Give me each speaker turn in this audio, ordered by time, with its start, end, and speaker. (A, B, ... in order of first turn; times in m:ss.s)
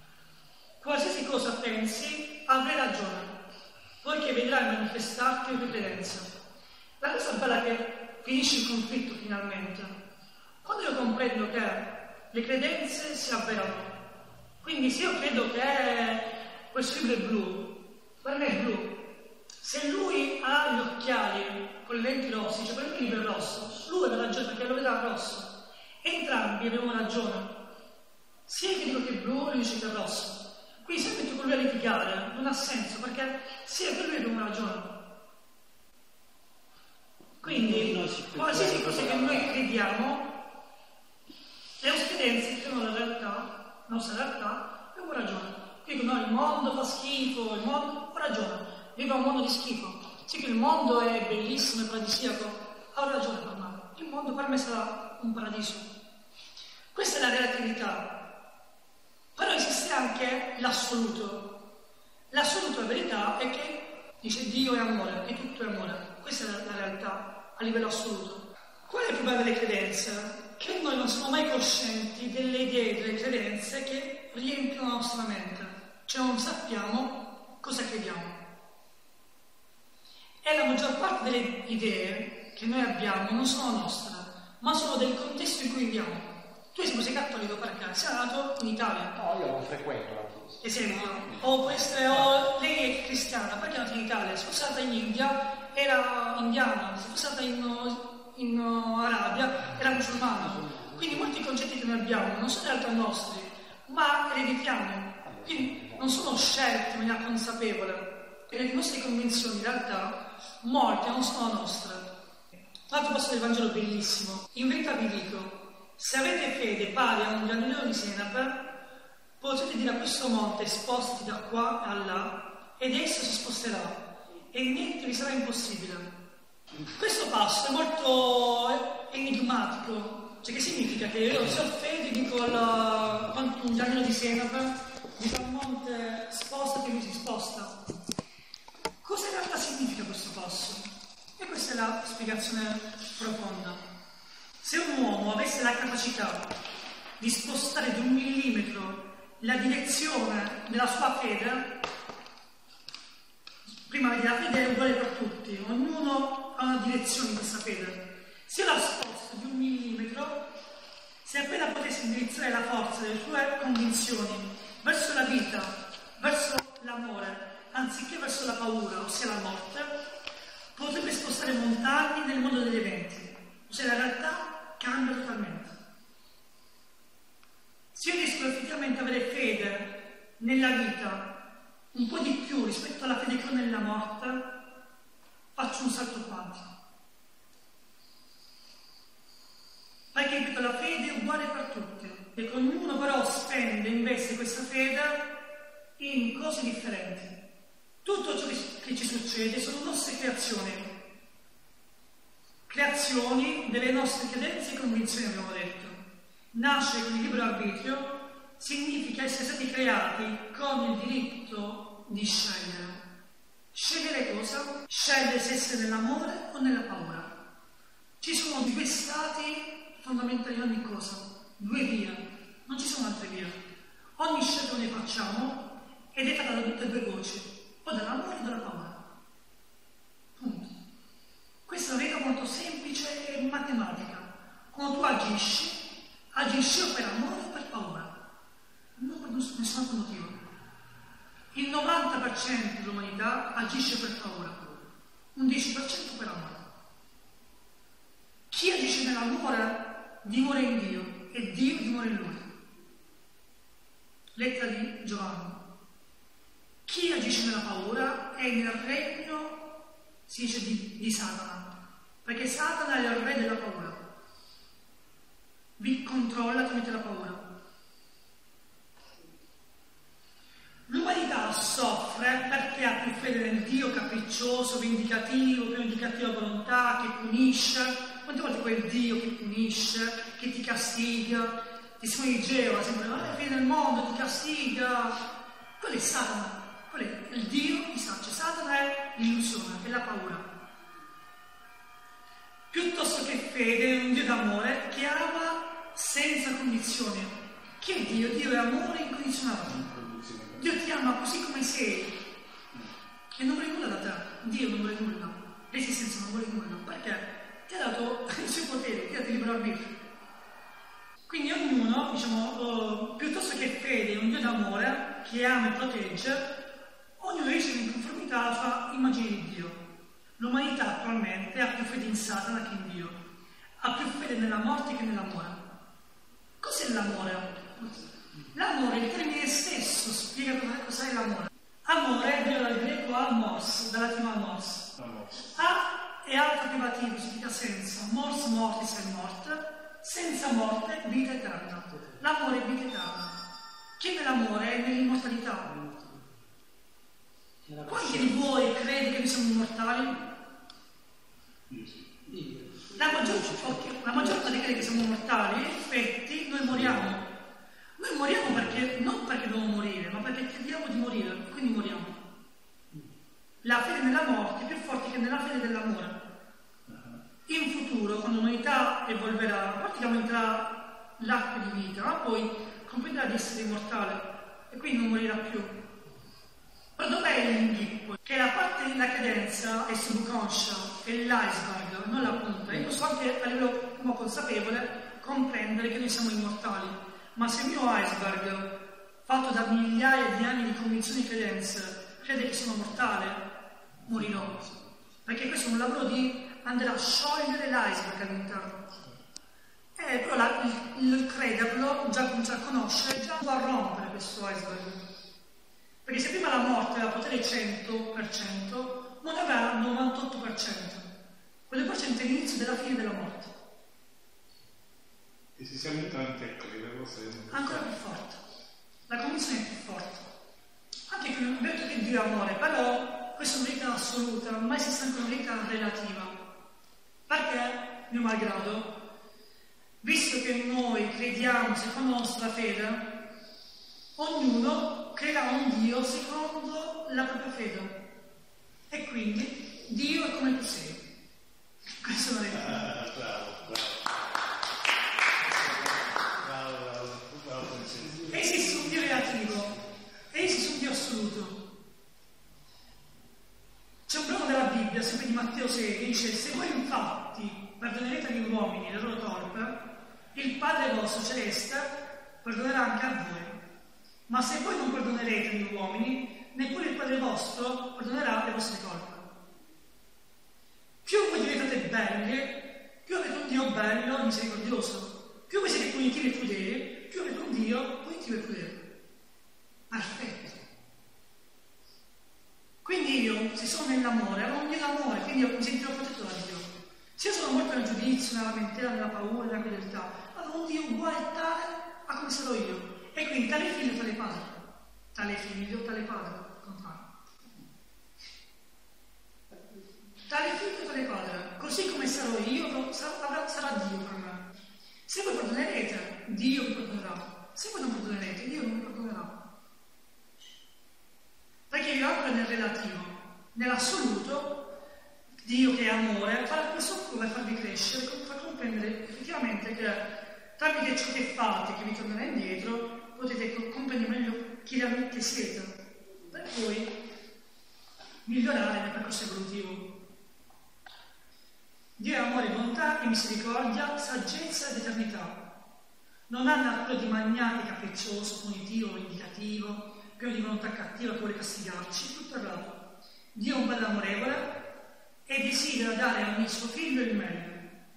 0:00.8-0:03.4 A
0:04.0-0:06.3 A
0:07.0-0:09.9 A
0:10.6-0:14.0 A
0:14.6-0:19.1 A
0:19.6-0:27.6 A
0:28.5-0:35.0 A
0:37.4-0:40.4 A
0:37.4-0:39.4 B
0:41.8-0:55.9 A
0:56.9-0:58.2 A
0:59.4-1:01.6 A
1:02.3-1:18.4 A
1:20.4-1:29.2 A
1:29.2-1:30.6 B
1:30.6-1:52.1 A
1:40.6-1:41.0 B
1:52.9-1:58.6 A
1:59.4-2:06.1 A
2:06.8-2:17.8 A
2:19.0-2:23.8 A
2:24.6-2:26.5 A
2:27.2-2:31.8 A
2:33.8-2:40.5 A
2:41.2-2:49.9 A
2:50.8-2:55.8 A
2:57.9-3:01.4 A
3:01.9-3:04.5 A
3:05.6-3:06.7 A
3:10.1-3:15.3 A
3:16.0-3:17.4 A
3:18.0-3:20.9 A
3:22.7-3:26.0 A
3:26.5-3:33.0 A
3:33.7-3:37.3 A
3:38.2-3:43.6 A
3:44.2-3:49.0 A
3:50.4-3:50.7 A
3:51.7-3:58.2 A
3:59.0-4:00.4 A
4:01.5-4:04.8 A
4:05.3-4:06.6 A
4:08.5-4:12.5 A
4:14.4-4:15.6 A
4:16.9-4:19.7 A
4:20.3-4:24.0 A
4:25.8-4:27.5 A
4:30.9-4:45.2 A
4:45.8-4:50.5 A
4:52.7-4:59.9 A
4:59.8-5:00.6 C
5:00.6-5:02.2 A
5:03.3-5:10.0 A
5:11.3-5:16.5 A
5:17.2-5:19.8 A
5:20.4-5:23.2 A
5:23.8-5:25.6 A
5:26.6-5:43.4 A
5:35.0-5:35.5 C
5:44.0-5:45.8 A
5:45.8-5:46.2 B
5:47.7-5:48.2 B
5:47.8-5:50.3 A
5:51.7-5:52.0 C
5:52.3-5:53.8 B
5:52.9-5:57.3 A
5:58.0-6:02.2 A
6:03.6-6:06.2 A
6:06.9-6:07.2 C
6:07.5-6:15.8 A
6:17.0-6:33.4 A
6:34.0-6:38.9 A
6:40.0-6:45.1 A
6:46.0-6:51.1 A
6:51.7-6:53.6 A
6:55.6-6:57.8 C
6:57.5-6:58.4 A
6:59.1-7:00.3 A
7:01.1-7:06.4 A
7:07.3-7:09.0 A
7:10.0-7:13.2 A
7:14.2-7:18.0 A
7:18.9-7:21.1 A
7:22.0-7:23.0 A
7:22.7-7:24.0 C
7:26.3-7:28.3 C
7:28.3-7:29.8 A
7:30.3-7:31.7 A
7:34.1-7:43.6 A
7:44.3-7:49.3 A
7:51.0-7:58.9 A
7:59.9-8:00.6 A
8:02.8-8:14.6 A
8:15.1-8:17.1 A
8:20.2-8:24.5 A
8:25.1-8:29.4 A
8:31.7-8:34.7 A
8:35.4-8:47.0 A
8:48.2-8:50.0 A
8:52.0-8:55.5 A
8:56.3-9:02.8 A
9:03.3-9:04.6 A
9:05.3-9:07.7 A